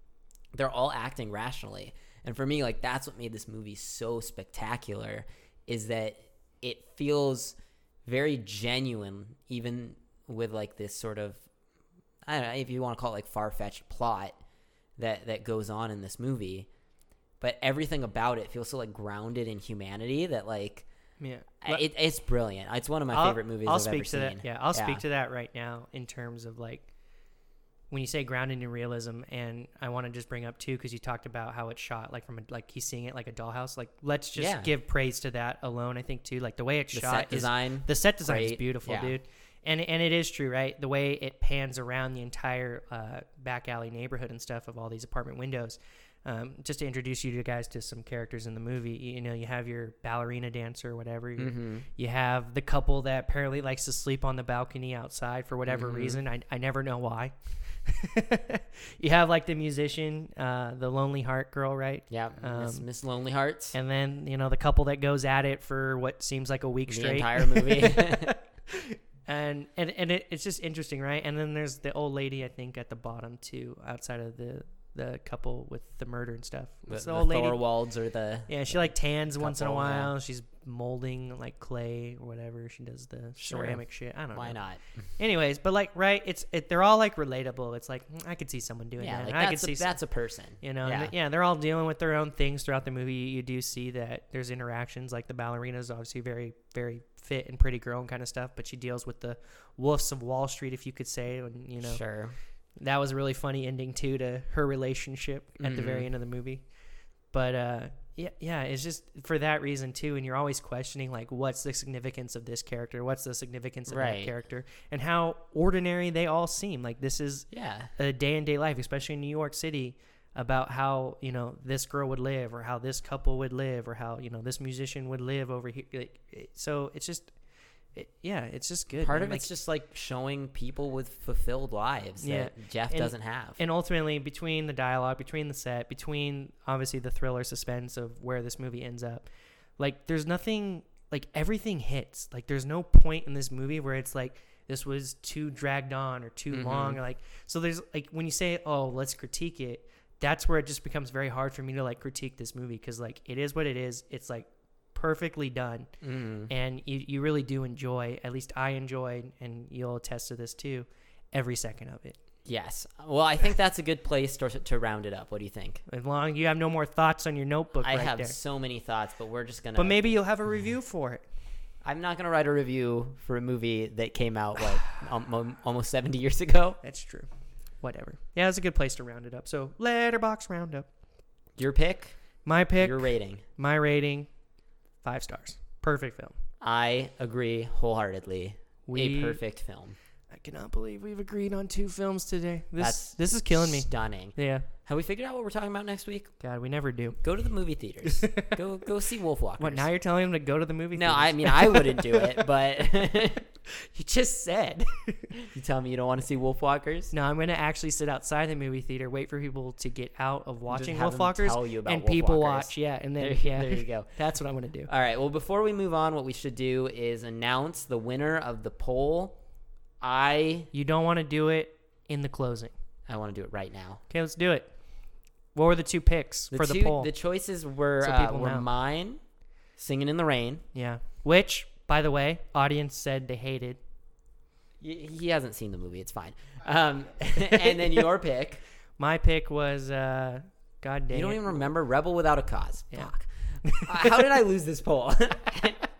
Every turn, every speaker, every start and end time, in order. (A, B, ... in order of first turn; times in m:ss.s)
0:00.5-0:11.4 A
0:12.2-0:14.4 A
0:15.0-0:16.7 A
0:17.4-0:20.9 A
0:21.2-0:21.8 B
0:21.6-0:25.0 A
0:23.1-0:26.9 B
0:27.9-0:57.3 B
0:34.4-0:34.7 A
0:36.9-0:39.2 A
0:51.4-0:51.9 A
0:55.7-0:56.2 A
0:57.8-1:02.8 B
1:02.1-1:03.8 A
1:03.7-1:17.6 B
1:06.9-1:08.4 A
1:16.9-1:20.1 A
1:18.5-1:24.6 B
1:23.4-1:23.8 A
1:24.3-1:24.8 A
1:25.2-1:30.0 B
1:29.0-1:31.1 A
1:30.6-1:42.0 B
1:41.8-1:42.4 A
1:42.8-1:46.6 B
1:45.6-1:46.1 A
1:47.3-2:07.3 B
1:53.9-1:54.3 A
1:57.5-1:57.9 A
2:07.9-2:09.5 B
2:09.0-2:13.6 A
2:12.2-2:19.3 B
2:19.8-2:35.9 B
2:26.5-2:27.0 A
2:36.0-2:36.5 A
2:36.5-2:42.2 B
2:42.4-2:45.8 A
2:45.9-2:48.4 B
2:47.8-2:50.1 A
2:49.8-2:51.2 B
2:51.8-2:56.8 A
2:56.8-3:00.9 B
3:01.6-3:02.2 A
3:02.4-3:04.3 B
3:02.8-3:03.4 A
3:05.0-3:06.3 B
3:06.6-3:10.0 A
3:08.8-3:09.4 B
3:10.3-3:14.7 B
3:12.8-3:16.3 A
3:16.4-3:17.2 B
3:17.2-3:19.9 A
3:18.0-3:18.6 B
3:19.6-3:22.4 B
3:20.9-3:23.5 A
3:23.7-3:25.4 B
3:25.4-3:27.1 A
3:27.1-3:34.9 B
3:30.7-3:34.1 A
3:34.9-3:39.4 A
3:40.0-3:40.7 A
3:40.7-3:42.7 B
3:43.1-3:44.0 A
3:44.1-3:44.7 B
3:45.5-3:47.1 B
3:46.5-3:49.2 A
3:48.0-3:48.7 B
3:49.8-3:50.6 A
3:50.7-3:53.8 B
3:54.8-3:58.6 A
3:59.0-4:01.7 B
4:01.1-4:05.8 A
4:02.9-4:04.2 B